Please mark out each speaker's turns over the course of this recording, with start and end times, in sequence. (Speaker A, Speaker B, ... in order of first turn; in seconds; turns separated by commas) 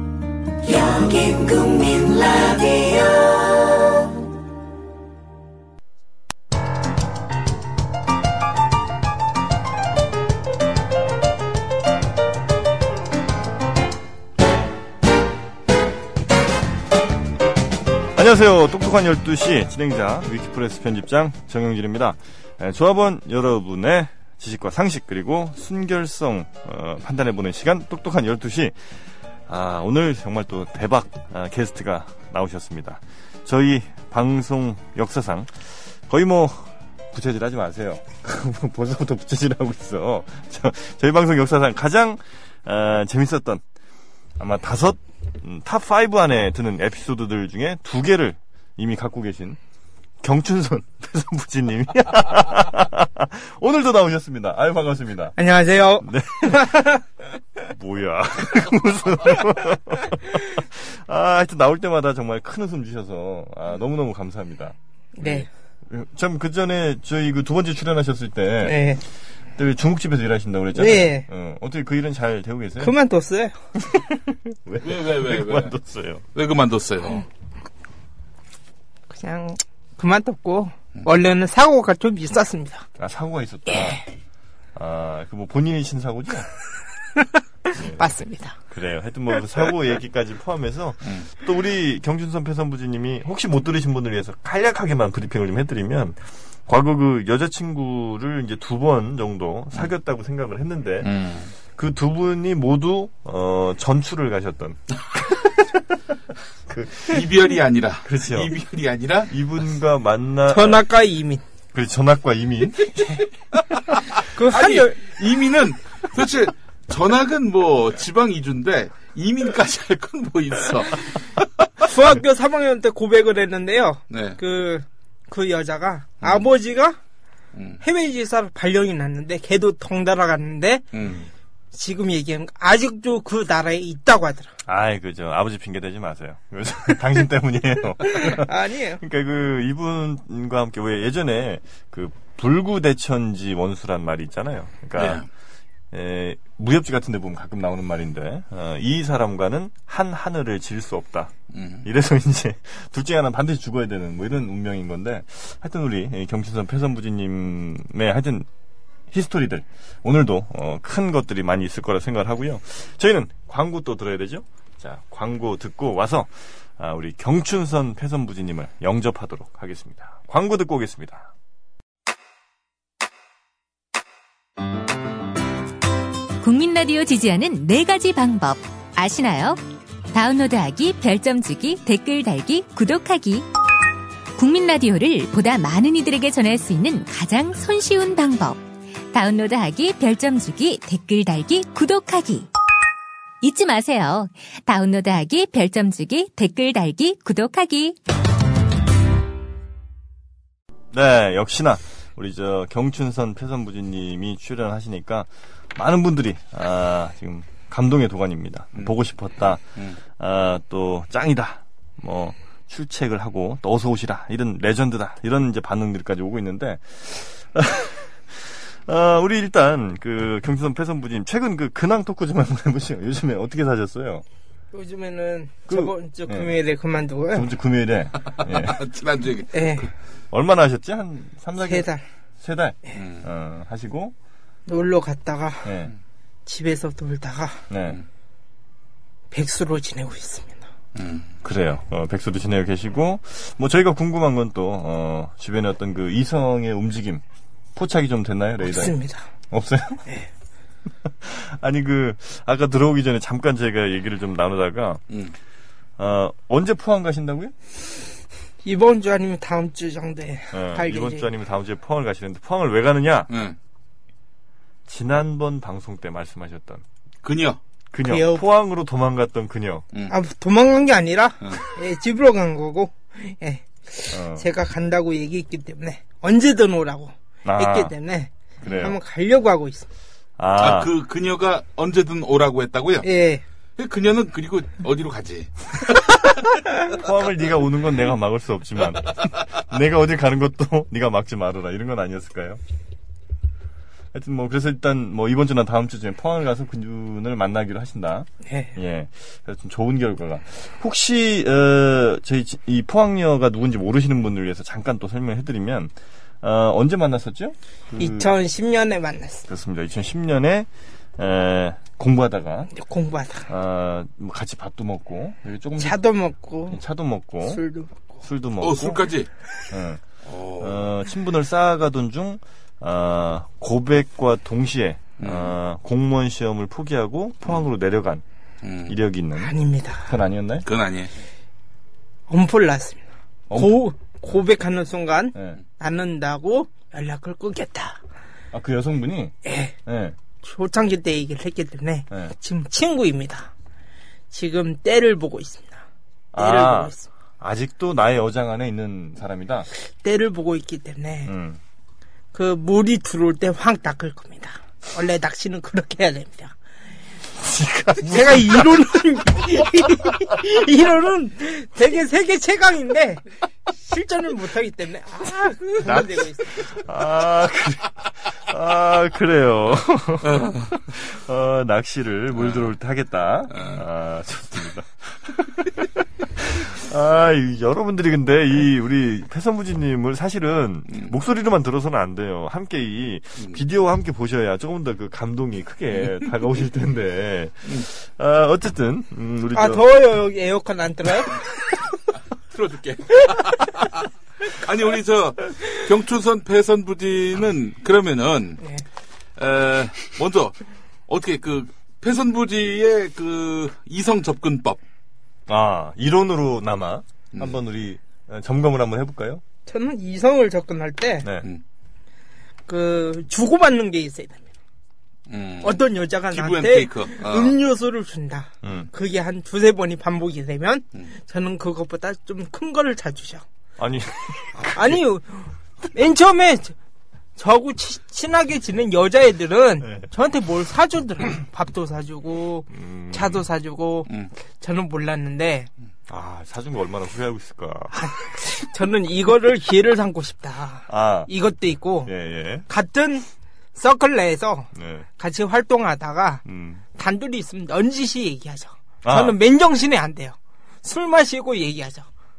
Speaker A: 0.6-4.2, Speaker B: 18.1-28.9, Speaker B: 29.5-43.6, Speaker B: 44.4-49.6, Speaker B: 50.2-55.4, Speaker C: 55.4-57.0, Speaker B: 56.0-57.0, Speaker B: 57.6-69.0, Speaker C: 65.2-65.5, Speaker C: 68.6-69.0, Speaker B: 69.6-72.9, Speaker C: 70.8-71.3, Speaker C: 72.8-73.6, Speaker B: 73.8-76.2, Speaker D: 74.8-75.7, Speaker D: 76.3-77.2, Speaker C: 79.1-82.9, Speaker B: 83.0-84.0, Speaker C: 83.7-84.0, Speaker B: 84.8-86.5, Speaker C: 87.2-88.6, Speaker B: 87.8-88.0, Speaker B: 88.7-105.8, Speaker D: 101.0-101.5, Speaker B: 106.7-107.3, Speaker D: 107.1-109.3, Speaker B: 108.0-108.5, Speaker B: 109.3-110.8, Speaker C: 110.5-111.4, Speaker B: 111.7-113.0, Speaker C: 114.3-115.0, Speaker D: 114.5-121.2, Speaker C: 121.8-127.0, Speaker D: 124.1-124.4, Speaker D: 127.5-127.8, Speaker C: 127.8-130.8, Speaker D: 130.9-131.2, Speaker C: 131.7-134.5, Speaker B: 134.7-145.2, Speaker C: 138.0-139.0, Speaker D: 145.0-145.3, Speaker B: 145.9-151.3, Speaker D: 151.5-151.9, Speaker B: 151.8-158.5, Speaker B: 159.1-171.3, Speaker E: 176.4-179.6, Speaker E: 180.1-183.5, Speaker E: 184.4-192.5, Speaker E: 193.4-198.0, Speaker B: 200.9-224.2, Speaker C: 224.7-227.5, Speaker B: 225.7-226.6, Speaker B: 227.3-228.8, Speaker D: 228.3-229.8, Speaker C: 229.5-229.9, Speaker B: 230.3-231.9, Speaker C: 231.6-232.0, Speaker B: 232.4-234.1, Speaker D: 233.0-233.2, Speaker C: 234.7-235.7, Speaker B: 235.6-235.9, Speaker C: 236.5-237.6, Speaker B: 237.7-238.0, Speaker C: 239.3-240.7, Speaker D: 240.9-241.3, Speaker B: 241.4-247.2, Speaker B: 247.8-249.0, Speaker C: 248.6-249.3, Speaker B: 249.5-250.1, Speaker B: 251.0-255.0, Speaker B: 256.0-257.5, Speaker C: 258.6-261.3, Speaker B: 260.5-263.3, Speaker D: 263.3-263.6, Speaker B: 264.9-266.8, Speaker D: 267.2-267.6, Speaker B: 267.9-269.9, Speaker C: 268.0-268.4, Speaker C: 270.1-279.9, Speaker B: 274.1-274.5, Speaker B: 277.4-277.9, Speaker B: 278.6-279.0, Speaker B: 280.4-280.9, Speaker D: 280.6-283.1, Speaker C: 283.0-283.4, Speaker D: 283.8-286.3, Speaker B: 286.9-292.6, Speaker B: 294.1-308.3, Speaker C: 298.5-298.8, Speaker C: 308.0-309.5, Speaker B: 309.5-312.7, Speaker C: 312.7-313.5, Speaker B: 313.5-316.0, Speaker C: 315.8-316.8, Speaker B: 316.7-317.6, Speaker C: 317.4-318.1, Speaker B: 318.2-319.1, Speaker D: 318.6-319.3, Speaker B: 319.7-320.0, Speaker D: 320.2-320.9, Speaker B: 320.6-328.2, Speaker D: 325.2-325.5, Speaker D: 328.6-329.0, Speaker B: 328.9-329.5, Speaker C: 329.4-330.1, Speaker B: 330.1-330.7, Speaker D: 330.6-331.1, Speaker C: 332.3-338.0, Speaker B: 333.5-333.8, Speaker B: 338.5-339.4, Speaker C: 339.4-339.7, Speaker B: 339.9-340.2, Speaker C: 340.4-343.5, Speaker C: 344.3-345.8, Speaker B: 346.3-349.7, Speaker C: 346.4-347.1, Speaker C: 350.0-351.3, Speaker B: 351.3-351.6, Speaker C: 352.3-356.6, Speaker B: 357.3-358.9, Speaker C: 358.0-366.7, Speaker B: 359.6-360.2, Speaker B: 366.6-389.9, Speaker D: 370.2-370.6, Speaker D: 372.4-372.7, Speaker D: 373.5-373.8, Speaker C: 389.5-391.4, Speaker D: 392.5-398.6, Speaker D: 399.4-400.6, Speaker D: 401.1-404.8, Speaker B: 405.5-409.4, Speaker D: 407.3-407.6, Speaker C: 409.7-411.3, Speaker C: 412.7-414.5, Speaker D: 415.3-417.6, Speaker C: 415.6-423.4, Speaker B: 418.6-418.9, Speaker B: 423.8-425.0, Speaker C: 424.7-426.8, Speaker C: 427.4-435.7, Speaker B: 429.8-430.1, Speaker B: 432.7-433.4, Speaker B: 436.1-437.9, Speaker C: 437.9-442.1, Speaker B: 440.9-441.3, Speaker B: 442.1-442.7, Speaker C: 442.7-452.1, Speaker B: 444.7-445.1, Speaker B: 446.5-446.8, Speaker B: 449.0-449.4